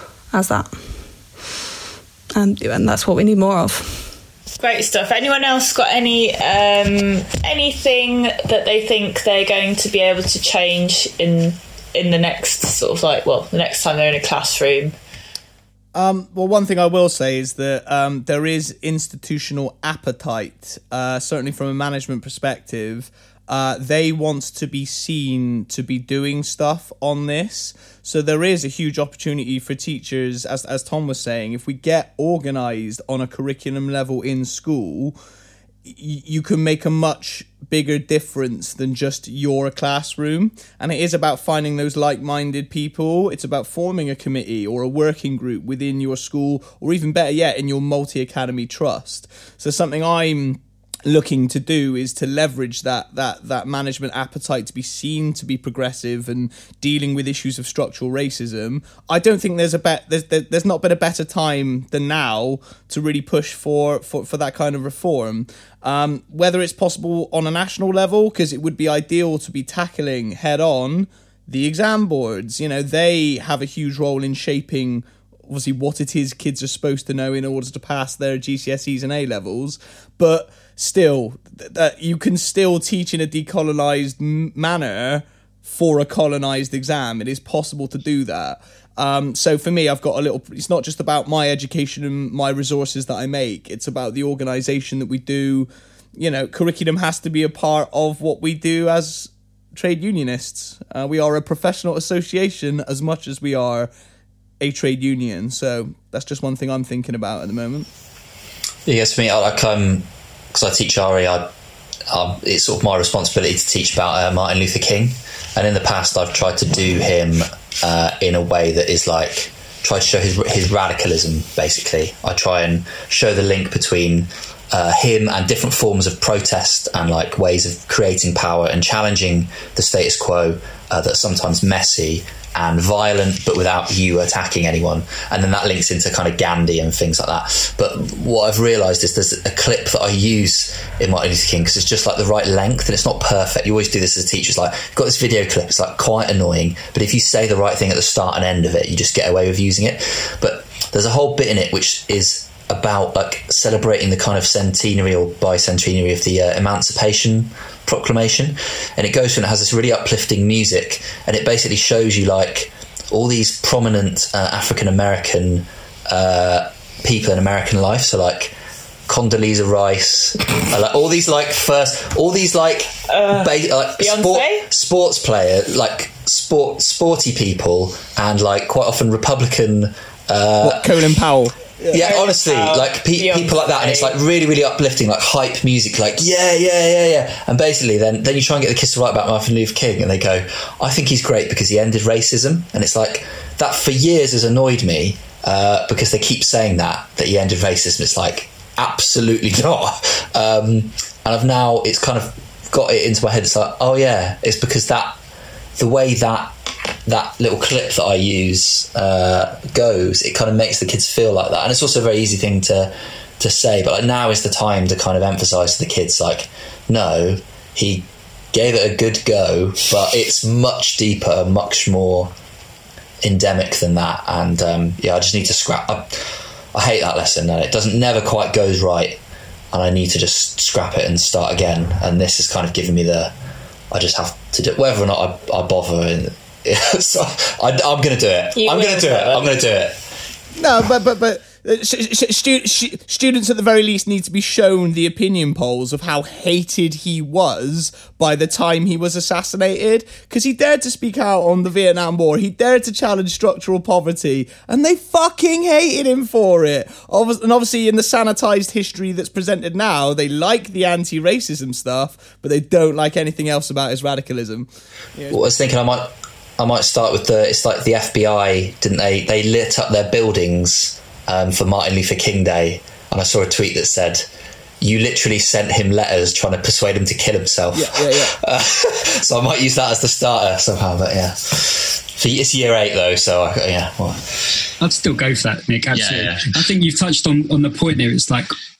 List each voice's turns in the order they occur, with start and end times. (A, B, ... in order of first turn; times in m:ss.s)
0:00.3-0:00.7 A
0:02.3-0:04.0 A
0:04.6-0:14.9 B
0:15.9-0:35.1 C
0:35.9-1:43.9 C
1:44.6-1:47.9 C
1:48.8-1:51.5 D
1:52.1-2:48.5 D
2:49.1-3:01.1 D
2:53.1-2:54.7 B
3:00.6-3:02.0 C
3:01.9-3:25.2 D
3:01.9-3:04.1 B
3:25.8-3:26.5 D
3:27.0-3:42.3 D
3:43.2-3:49.2 D
3:49.7-3:53.3 D
3:53.9-4:00.0 D
3:58.6-3:59.7 B
4:00.6-4:25.4 C
4:25.3-4:34.3 D
4:34.8-4:44.6 D
4:37.7-4:38.4 C
4:44.8-4:48.5 E
4:45.9-4:46.5 D